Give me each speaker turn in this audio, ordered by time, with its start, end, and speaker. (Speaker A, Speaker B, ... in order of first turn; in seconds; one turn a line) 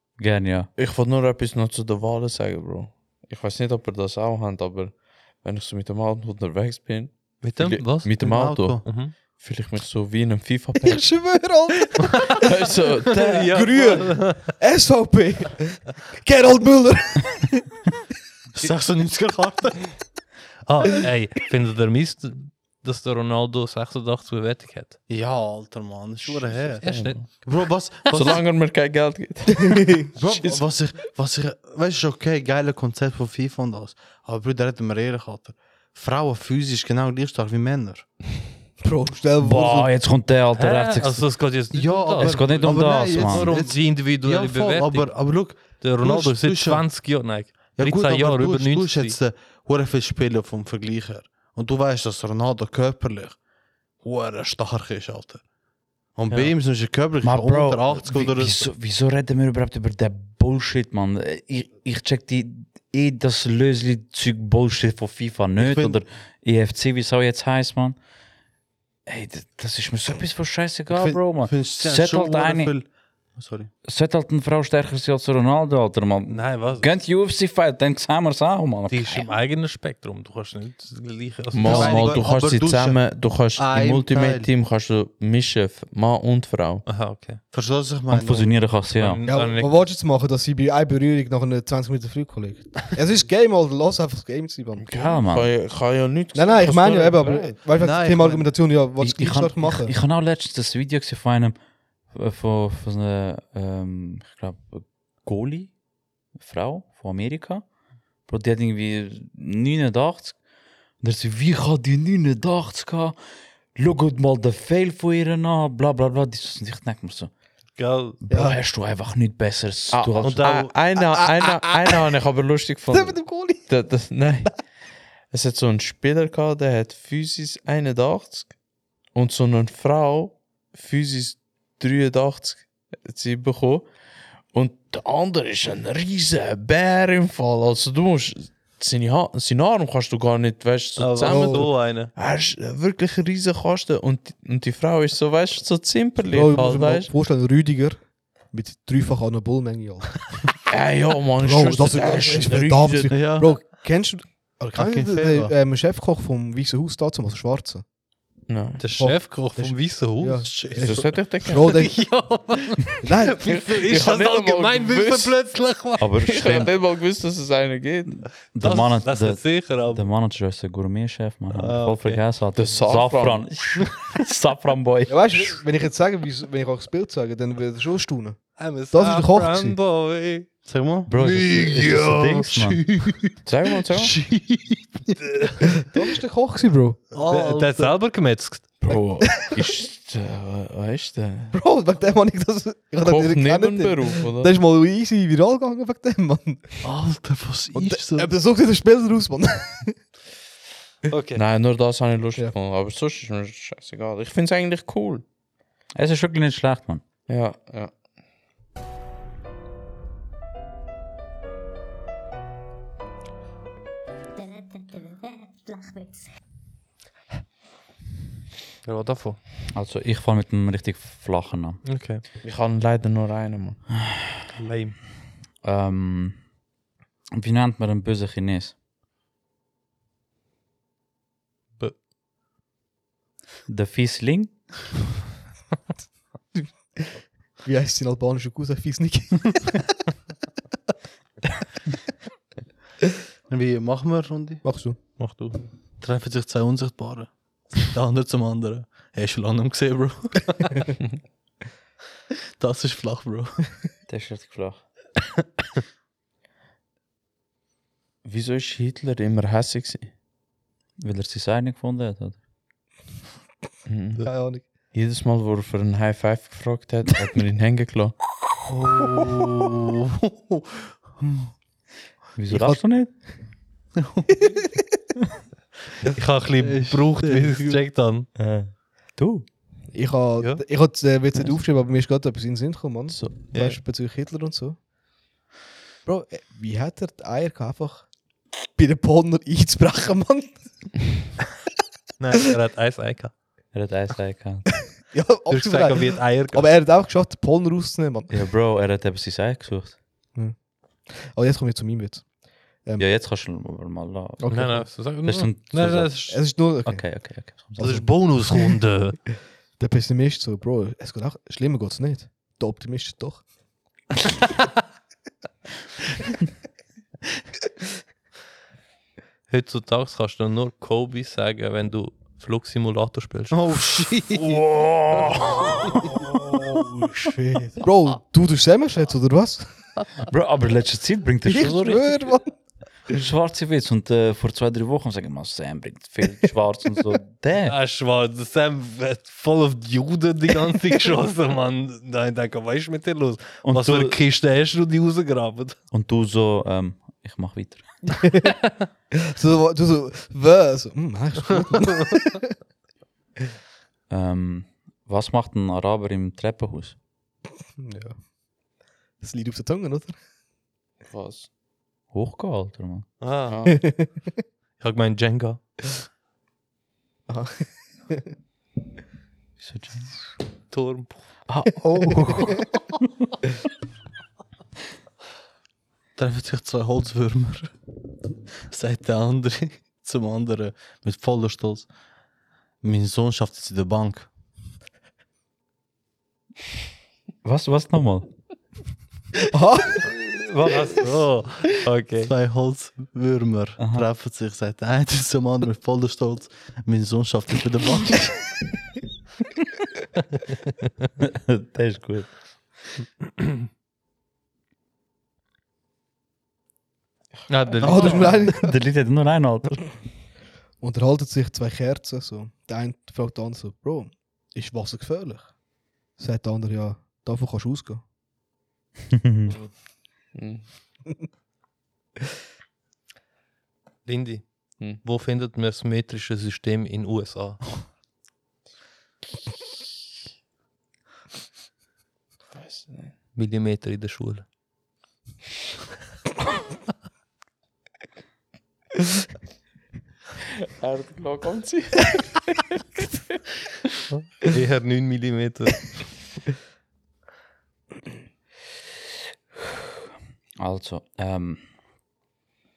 Speaker A: 0.2-0.7
Speaker B: 0.8-11.5
Speaker C: 7.4-9.1
Speaker D: 8.2-9.0
Speaker E: 10.8-12.5
Speaker B: 12.3-13.6
Speaker C: 13.1-14.5
Speaker E: 13.5-17.9
Speaker D: 18.6-20.1
Speaker C: 20.6-25.0
Speaker D: 25.1-28.4
Speaker C: 26.2-27.2
Speaker B: 26.8-27.5
Speaker B: 28.1-30.6
Speaker E: 29.7-30.0
Speaker D: 30.1-38.1
Speaker E: 38.8-39.9
Speaker A: 39.4-41.3
Speaker C: 40.6-49.2
Speaker D: 41.7-47.0
Speaker A: 42.2-43.5
Speaker D: 47.8-53.4
Speaker D: 54.0-55.4
Speaker D: 56.1-58.7
Speaker C: 56.3-56.5
Speaker A: 57.2-68.0
Speaker D: 65.6-66.0
Speaker A: 69.1-72.7
Speaker D: 70.9-73.7
Speaker A: 73.9-79.3
Speaker C: 76.3-76.9
Speaker C: 78.9-82.2
Speaker B: 81.5-86.8
Speaker D: 81.6-84.5
Speaker C: 86.9-87.4
Speaker D: 87.5-88.7
Speaker A: 88.1-89.2
Speaker C: 89.0-89.8
Speaker E: 89.3-94.9
Speaker B: 94.8-97.6
Speaker A: 94.9-95.5
Speaker E: 96.3-99.9
Speaker D: 97.8-98.5
Speaker A: 99.0-101.5
Speaker A: 102.1-105.8
Speaker A: 106.3-107.7
Speaker A: 108.3-110.4
Speaker A: 111.0-113.2
Speaker A: 113.8-117.3
Speaker C: 117.8-118.2
Speaker A: 118.2-120.7
Speaker E: 118.3-118.6
Speaker B: 119.9-124.7
Speaker C: 120.2-120.8
Speaker E: 121.0-122.0
Speaker E: 122.9-123.7
Speaker B: 125.3-128.5
Speaker B: 129.1-133.9
Speaker B: 134.5-147.1
Speaker C: 141.0-142.1
Speaker E: 141.2-141.7
Speaker E: 146.3-150.4
Speaker B: 150.7-153.2
Speaker E: 151.4-157.8
Speaker D: 153.1-153.6
Speaker D: 154.7-155.6
Speaker B: 158.5-158.8
Speaker C: 158.8-160.9
Speaker E: 159.0-162.1
Speaker D: 160.5-161.2
Speaker B: 160.8-161.9
Speaker C: 161.5-166.3
Speaker E: 163.0-163.4
Speaker B: 163.4-165.6
Speaker A: 166.0-166.7
Speaker B: 166.2-168.3
Speaker A: 168.5-175.5
Speaker C: 168.6-170.1
Speaker C: 171.5-172.2
Speaker B: 172.6-173.6
Speaker E: 175.1-179.8
Speaker C: 178.6-180.5
Speaker D: 180.7-183.4
Speaker A: 181.1-182.9
Speaker B: 183.4-184.2
Speaker D: 183.9-185.2
Speaker C: 185.2-185.6
Speaker E: 185.8-187.1
Speaker D: 187.1-187.9
Speaker C: 187.2-188.7
Speaker B: 188.8-191.6
Speaker E: 191.5-196.8
Speaker B: 193.0-194.5
Speaker D: 196.8-198.3
Speaker E: 197.8-200.0
Speaker C: 201.1-201.4
Speaker B: 201.3-205.2
Speaker A: 205.9-207.0
Speaker B: 207.3-207.9
Speaker C: 218.8-219.4
Speaker A: 219.7-221.8
Speaker C: 221.8-222.2
Speaker B: 222.4-223.8
Speaker C: 224.5-225.0
Speaker A: 225.6-226.4
Speaker A: 227.3-228.7
Speaker A: 233.7-234.6
Speaker E: 236.6-237.1
Speaker E: 237.6-240.0
Speaker D: 243.5-244.6
Speaker E: 244.6-245.0
Speaker C: 245.2-245.6
Speaker D: 246.0-250.7
Speaker D: 252.6-253.6
Speaker A: 254.1-254.8
Speaker B: 258.2-260.1
Speaker A: 261.0-262.4
Speaker B: 263.9-268.2
Speaker E: 264.2-264.6
Speaker D: 268.7-270.9
Speaker A: 272.4-273.1
Speaker E: 272.5-273.0
Speaker D: 274.0-274.3
Speaker C: 276.0-278.3
Speaker D: 276.6-277.9
Speaker A: 278.4-279.5
Speaker E: 279.9-284.8
Speaker B: 283.1-283.6
Speaker C: 283.5-283.8
Speaker E: 286.1-288.1
Speaker E: 288.7-291.0
Speaker C: 292.2-293.4
Speaker A: 293.7-294.9
Speaker E: 295.1-298.4
Speaker C: 295.5-296.8
Speaker A: 298.3-300.0
Speaker E: 300.4-303.1
Speaker A: 303.0-308.3
Speaker E: 304.4-304.9
Speaker C: 304.5-306.5
Speaker E: 306.3-307.2
Speaker E: 307.8-308.1
Speaker C: 307.8-309.2
Speaker E: 309.8-313.5
Speaker C: 319.5-324.6
Speaker D: 323.5-324.7
Speaker A: 324.5-325.8
Speaker E: 327.2-329.9
Speaker A: 330.3-332.2
Speaker E: 331.5-332.5
Speaker C: 331.6-332.0
Speaker A: 333.1-337.8
Speaker C: 337.7-345.8
Speaker A: 343.6-344.2
Speaker A: 345.9-348.0
Speaker E: 348.2-348.5
Speaker E: 349.1-352.4
Speaker A: 354.1-357.0
Speaker E: 357.8-358.2
Speaker E: 359.2-360.2
Speaker B: 361.1-361.5
Speaker A: 362.1-363.2
Speaker C: 363.2-363.6
Speaker B: 363.5-363.8
Speaker E: 363.8-364.2
Speaker C: 364.8-365.6
Speaker E: 367.3-368.2
Speaker A: 369.6-370.1
Speaker C: 370.7-371.2
Speaker A: 371.5-372.7
Speaker D: 376.2-377.7
Speaker D: 378.7-381.9
Speaker D: 382.8-384.3
Speaker A: 387.4-388.3
Speaker E: 389.5-390.0
Speaker C: 390.4-392.3
Speaker D: 392.2-398.5
Speaker A: 393.8-394.1
Speaker A: 401.2-402.6
Speaker C: 407.5-408.4
Speaker E: 407.8-408.8
Speaker B: 407.9-408.3
Speaker A: 407.9-410.0
Speaker E: 410.8-415.6
Speaker E: 416.1-418.0
Speaker A: 419.1-419.6
Speaker C: 419.5-419.7
Speaker B: 420.3-420.7
Speaker C: 424.1-427.8
Speaker B: 432.5-433.2
Speaker C: 433.4-434.5
Speaker B: 440.8-442.7
Speaker C: 444.1-445.9
Speaker A: 450.6-451.6